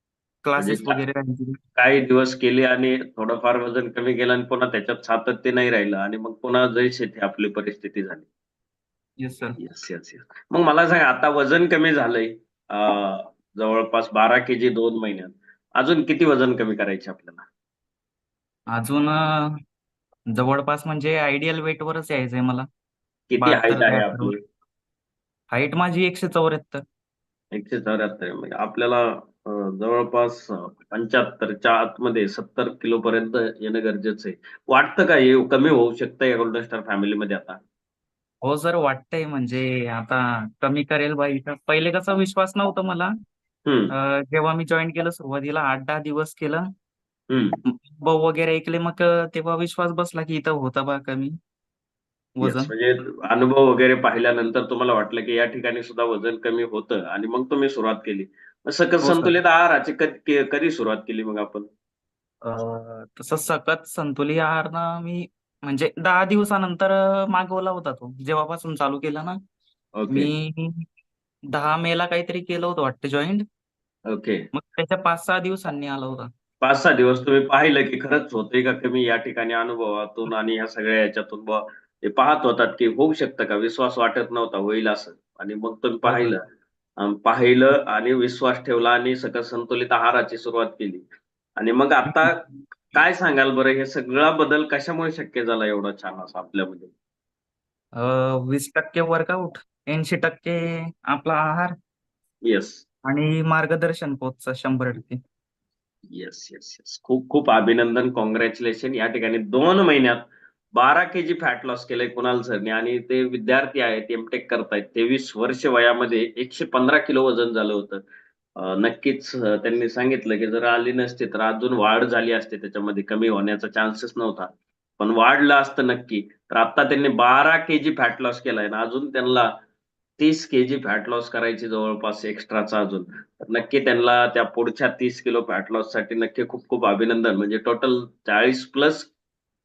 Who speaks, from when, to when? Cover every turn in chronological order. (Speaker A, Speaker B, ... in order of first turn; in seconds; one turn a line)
Speaker A: 0.4-1.5
Speaker B: 0.6-1.0
Speaker B: 1.8-8.3
Speaker A: 9.2-9.6
Speaker B: 9.6-17.4
Speaker A: 18.7-19.5
Speaker A: 20.3-22.7
Speaker B: 23.3-24.4
Speaker A: 23.4-24.3
Speaker A: 25.5-26.8
Speaker B: 27.5-37.6
Speaker A: 38.4-43.1
Speaker B: 43.7-43.9
Speaker A: 44.0-46.6
Speaker B: 47.3-47.6
Speaker A: 47.7-51.3
Speaker A: 52.4-52.7
Speaker B: 52.4-61.7
Speaker A: 59.0-59.3
Speaker A: 62.4-69.3
Speaker B: 70.0-70.3
Speaker A: 70.1-70.8
Speaker A: 71.5-73.4
Speaker B: 74.1-74.4
Speaker A: 74.5-76.3
Speaker B: 76.6-86.4
Speaker A: 86.0-86.3
Speaker B: 87.0-91.0
Speaker B: 91.6-92.4
Speaker A: 92.1-92.5
Speaker B: 92.9-96.9
Speaker A: 98.0-101.7
Speaker B: 102.4-102.8
Speaker A: 103.0-105.2
Speaker B: 106.1-110.2
Speaker B: 110.8-118.0
Speaker B: 118.6-129.5
Speaker B: 130.2-139.1